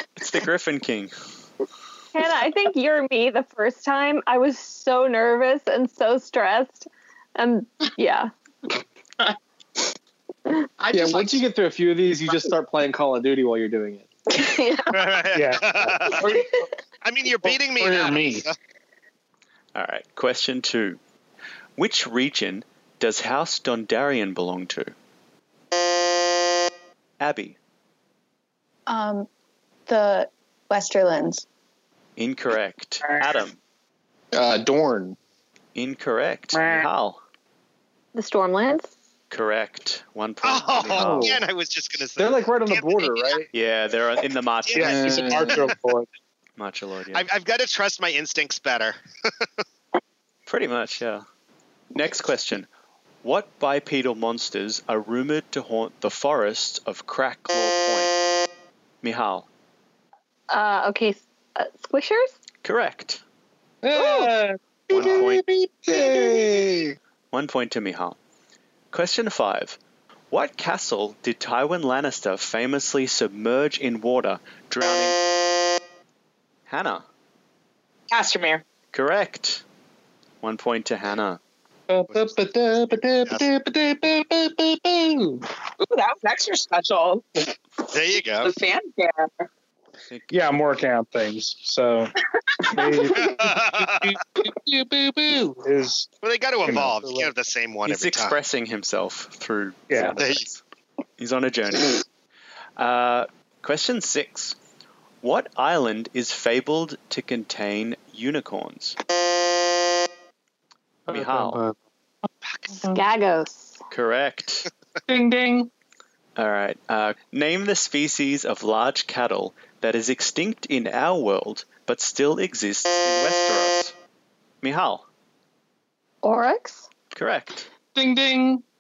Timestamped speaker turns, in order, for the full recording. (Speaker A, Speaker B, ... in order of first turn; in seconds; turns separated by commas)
Speaker A: 0.2-1.1, Speaker B: 2.1-8.3, Speaker C: 10.8-11.4, Speaker D: 10.9-14.1, Speaker C: 12.3-12.5, Speaker B: 14.3-15.0, Speaker E: 14.9-16.4, Speaker F: 15.3-16.5, Speaker E: 17.0-18.5, Speaker F: 17.7-18.5, Speaker A: 19.7-21.0, Speaker A: 21.8-24.9, Speaker A: 27.2-27.6, Speaker G: 28.9-29.3, Speaker G: 29.9-31.4, Speaker A: 32.2-33.6, Speaker F: 33.0-33.4, Speaker D: 34.3-35.2, Speaker A: 35.7-37.2, Speaker F: 36.5-36.9, Speaker B: 38.1-38.9, Speaker A: 39.3-41.4, Speaker E: 40.4-43.5, Speaker F: 40.9-41.4, Speaker D: 42.2-43.5, Speaker A: 43.5-45.5, Speaker E: 44.7-45.7, Speaker F: 44.8-46.1, Speaker D: 44.8-45.6, Speaker A: 46.6-47.3, Speaker E: 47.1-49.5, Speaker A: 50.5-51.2, Speaker A: 51.9-52.7, Speaker A: 53.2-58.1, Speaker A: 59.0-59.5, Speaker B: 60.5-62.4, Speaker A: 62.6-63.2, Speaker F: 63.8-66.5, Speaker B: 63.9-64.3, Speaker D: 64.9-67.0, Speaker A: 64.9-65.4, Speaker A: 67.3-68.2, Speaker A: 68.9-69.8, Speaker A: 70.3-75.2, Speaker A: 76.7-77.0, Speaker C: 78.1-78.6, Speaker A: 78.9-79.6, Speaker A: 80.4-81.4, Speaker F: 81.9-85.5, Speaker C: 85.8-87.5, Speaker E: 87.9-88.5, Speaker C: 88.4-89.4, Speaker A: 90.1-90.5, Speaker F: 90.3-92.1, Speaker F: 92.7-96.1, Speaker E: 93.1-94.2, Speaker E: 96.2-98.4, Speaker F: 96.6-97.3, Speaker A: 97.8-100.6, Speaker F: 99.9-100.2, Speaker E: 100.2-100.4, Speaker A: 101.2-102.0, Speaker A: 102.8-104.5, Speaker A: 105.2-109.0, Speaker F: 111.1-111.8, Speaker A: 111.1-111.6, Speaker E: 112.5-112.7, Speaker F: 112.7-113.0, Speaker B: 112.9-113.8, Speaker A: 113.9-114.7, Speaker F: 115.1-115.7, Speaker A: 116.4-123.9, Speaker A: 124.6-125.0, Speaker B: 126.2-126.9, Speaker A: 127.1-127.7, Speaker F: 127.9-128.6